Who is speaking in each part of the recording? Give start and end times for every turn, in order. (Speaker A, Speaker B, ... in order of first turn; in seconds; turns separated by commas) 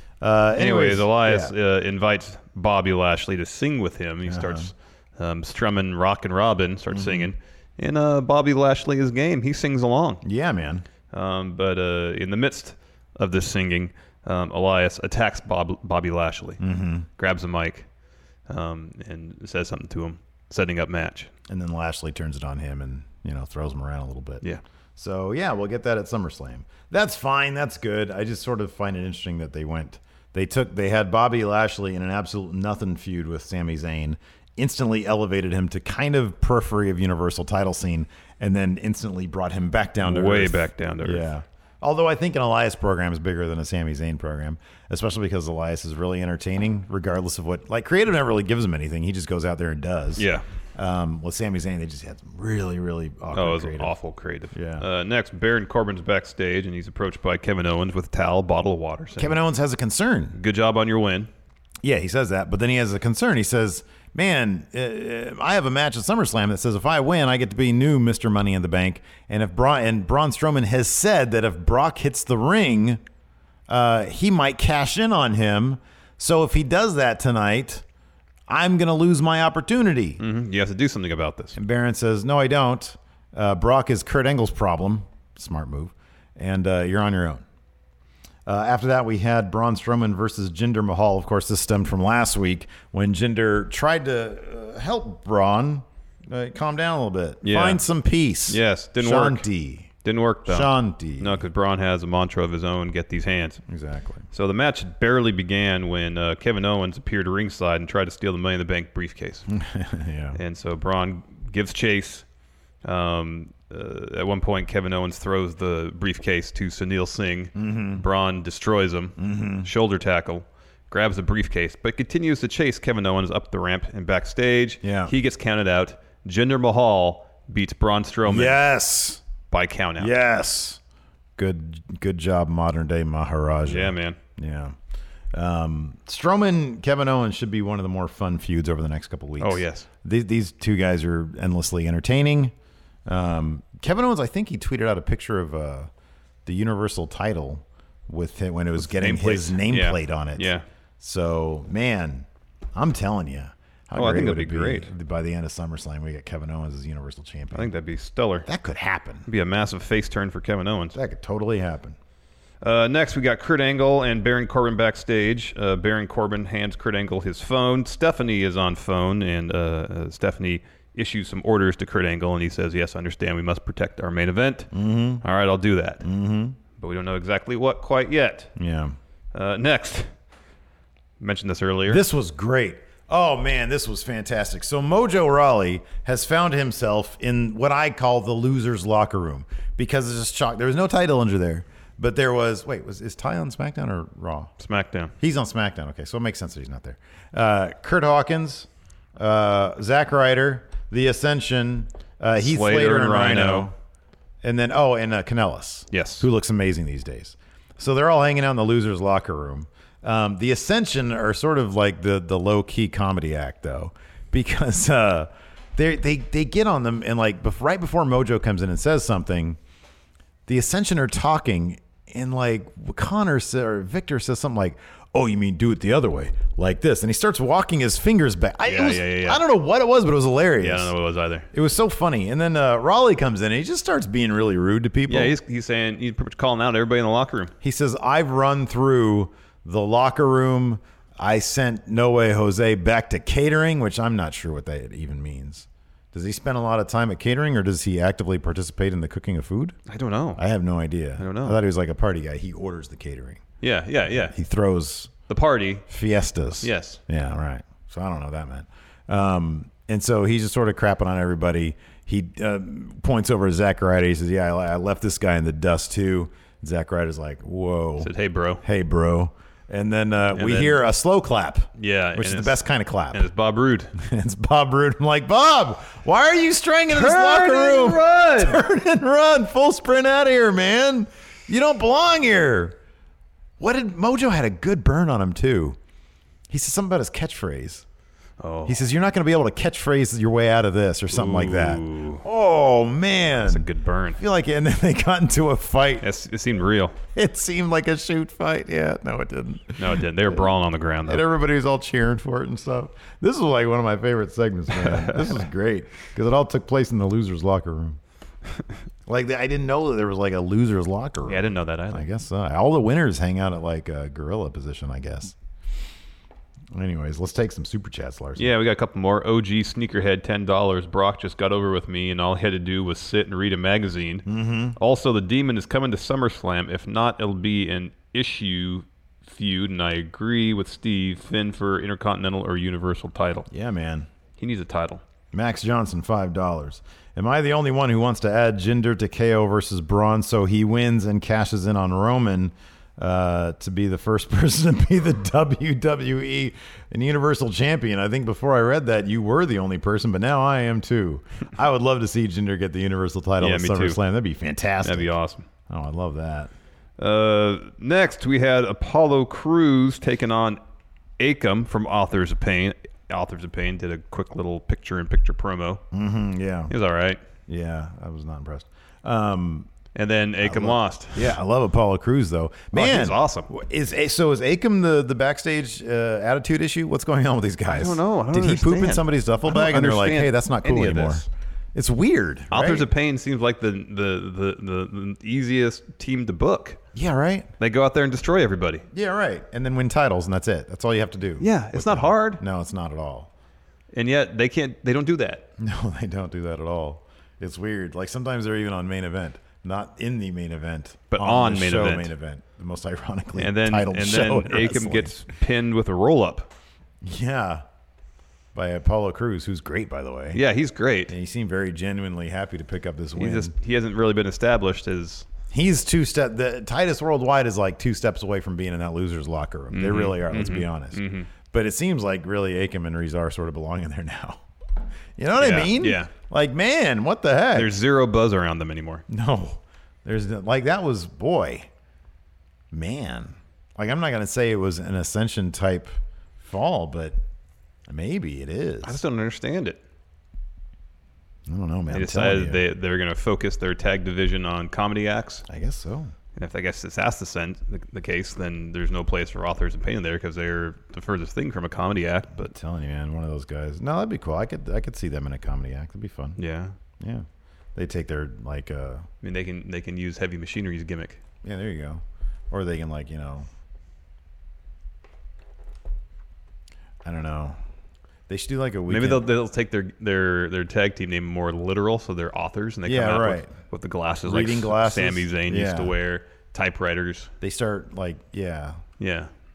Speaker A: 0.2-1.5, Speaker B: 0.6-10.2, Speaker A: 4.3-4.7, Speaker A: 6.9-7.3, Speaker A: 10.2-10.9, Speaker B: 11.1-16.6, Speaker A: 16.6-17.1, Speaker B: 17.2-17.9, Speaker B: 18.5-21.3, Speaker A: 21.5-24.4, Speaker A: 25.0-53.9, Speaker B: 40.0-41.3, Speaker B: 50.2-50.4, Speaker B: 53.3-59.4, Speaker A: 54.5-54.9, Speaker A: 59.2-60.4, Speaker B: 60.4-61.3, Speaker A: 61.8-73.0, Speaker A: 73.7-77.8, Speaker A: 78.5-80.2, Speaker B: 80.2-81.6, Speaker A: 81.5-87.4, Speaker A: 88.5-99.9, Speaker B: 97.4-97.8, Speaker B: 98.5-99.5, Speaker B: 100.0-103.6, Speaker A: 100.5-101.4, Speaker A: 103.7-104.2, Speaker B: 104.3-109.5, Speaker A: 109.5-110.4, Speaker B: 110.3-112.2, Speaker B: 112.8-128.6, Speaker A: 117.6-118.0, Speaker A: 119.2-119.7, Speaker A: 124.8-125.1, Speaker A: 128.3-129.2, Speaker B: 129.5-130.1, Speaker A: 130.0-130.8, Speaker A: 131.4-134.8, Speaker B: 133.7-134.2, Speaker A: 135.3-142.5, Speaker B: 139.4-139.9, Speaker A: 143.1-145.9, Speaker A: 146.4-157.7, Speaker B: 148.8-150.7, Speaker B: 153.9-154.9, Speaker B: 157.5-158.5, Speaker A: 158.4-159.3, Speaker B: 159.3-161.0, Speaker A: 160.9-162.0, Speaker B: 162.6-176.1, Speaker A: 174.7-175.2, Speaker A: 176.0-176.6, Speaker B: 176.8-178.5, Speaker A: 178.6-179.0, Speaker B: 179.3-180.1, Speaker B: 181.2-182.0, Speaker A: 181.9-194.5, Speaker B: 194.6-195.1, Speaker A: 195.2-203.7, Speaker B: 202.4-203.7, Speaker A: 204.4-219.6, Speaker B: 205.9-206.3, Speaker A: 220.5-230.9, Speaker B: 228.6-229.4, Speaker B: 230.6-231.5, Speaker A: 231.5-235.3, Speaker B: 235.1-237.5, Speaker A: 237.6-249.8, Speaker B: 249.9-250.4, Speaker A: 250.4-253.4, Speaker B: 251.2-251.6, Speaker B: 253.6-254.3, Speaker A: 254.2-255.1, Speaker B: 255.3-255.8, Speaker A: 255.9-268.1, Speaker B: 256.6-257.0, Speaker B: 268.0-268.6, Speaker A: 268.6-273.3, Speaker B: 270.3-270.8, Speaker B: 271.8-273.9, Speaker A: 274.0-282.8, Speaker B: 276.9-278.6, Speaker A: 283.6-285.8, Speaker A: 286.5-287.9, Speaker B: 288.4-288.9, Speaker A: 288.7-296.1, Speaker B: 291.1-292.2, Speaker B: 293.4-294.2, Speaker B: 296.0-297.0, Speaker A: 297.1-300.5, Speaker B: 299.8-301.3, Speaker A: 301.1-308.0, Speaker B: 304.8-305.4, Speaker A: 309.1-315.4, Speaker B: 311.2-312.1, Speaker A: 316.7-318.5, Speaker B: 318.4-333.5, Speaker A: 324.3-324.8, Speaker A: 333.5-334.1, Speaker B: 334.4-335.0, Speaker A: 335.3-355.1, Speaker B: 353.4-354.0, Speaker B: 354.8-355.5, Speaker A: 355.7-356.5, Speaker B: 357.0-360.6, Speaker B: 361.2-365.8, Speaker A: 365.9-366.7, Speaker B: 366.7-367.2, Speaker A: 367.5-369.7, Speaker B: 369.9-371.4, Speaker A: 370.4-382.9, Speaker B: 372.7-373.5, Speaker B: 377.7-381.3, Speaker B: 382.5-386.8, Speaker A: 386.9-387.5, Speaker B: 387.6-388.9, Speaker A: 388.9-393.3, Speaker B: 391.4-392.4, Speaker B: 393.9-395.5, Speaker A: 395.6-405.2, Speaker B: 401.1-402.1, Speaker B: 403.4-406.5, Speaker A: 407.0-407.6, Speaker A: 408.5-410.4, Speaker B: 410.3-411.1, Speaker A: 411.1-413.5, Speaker B: 413.2-415.3, Speaker A: 415.5-424.4, Speaker B: 419.7-421.3, Speaker A: 425.2-427.8, Speaker B: 425.4-426.1, Speaker B: 427.5-429.1, Speaker A: 429.1-431.7, Speaker A: 432.7-437.2, Speaker A: 437.9-439.0, Speaker B: 438.8-439.8, Speaker A: 441.5-442.6, Speaker B: 441.9-445.4, Speaker A: 445.5-446.1, Speaker B: 446.4-452.5, Speaker A: 452.4-456.4, Speaker B: 456.4-456.7, Speaker A: 457.0-459.1, Speaker B: 459.2-461.2, Speaker A: 461.4-463.5, Speaker A: 467.0-467.6, Speaker A: 468.3-469.2, Speaker B: 468.9-477.3, Speaker A: 472.9-473.5, Speaker A: 474.2-475.9, Speaker A: 477.4-478.8, Speaker B: 479.0-479.3